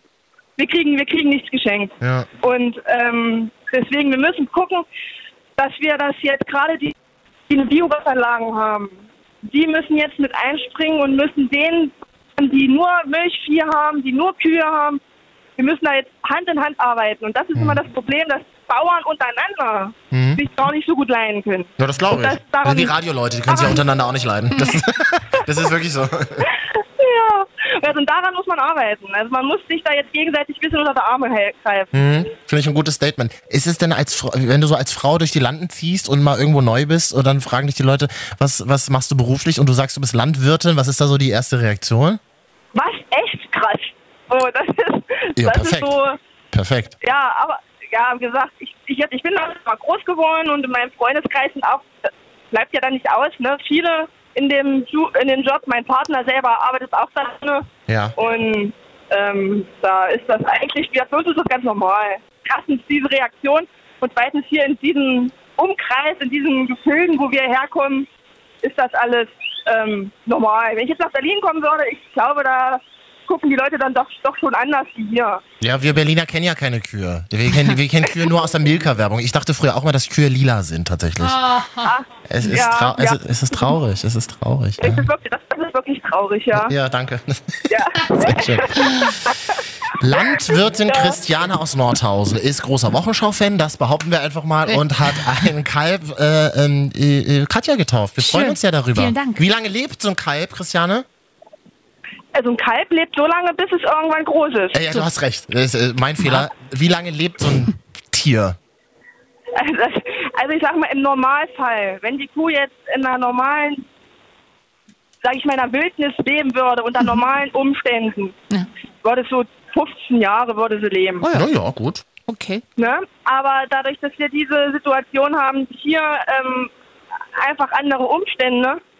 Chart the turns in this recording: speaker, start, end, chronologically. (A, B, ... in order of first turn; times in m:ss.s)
0:00.6-0:04.8 A
0:02.0-0:02.3 B
0:05.6-0:06.9 A
0:07.5-0:08.9 A
0:09.4-0:15.0 A
0:15.6-0:22.9 A
0:17.6-0:17.8 B
0:20.1-0:20.4 B
0:21.8-0:26.5 B
0:23.5-0:23.9 A
0:24.5-0:24.8 C
0:26.4-0:32.1 A
0:31.9-0:42.2 B
0:42.8-0:46.2 A
0:45.4-0:45.9 B
0:46.5-0:47.0 B
0:47.0-1:08.1 A
0:57.9-0:58.2 B
1:08.6-1:15.4 A
1:15.6-1:21.4 B
1:21.2-1:22.0 C
1:21.8-1:23.7 A
1:22.3-1:25.1 B
1:24.8-1:26.8 A
1:26.5-1:28.8 B
1:27.7-1:29.4 A
1:28.7-1:29.2 C
1:30.0-1:41.1 B
1:30.9-1:31.2 A
1:34.7-1:35.3 C
1:38.2-1:39.4 C
1:42.4-1:44.8 A
1:44.7-1:48.6 B
1:49.5-1:53.8 A
1:55.2-1:58.4 A
1:59.0-2:01.2 A
2:01.2-2:01.5 C
2:01.3-2:02.0 B
2:02.3-2:02.6 C
2:02.8-2:06.7 A
2:07.4-2:08.8 A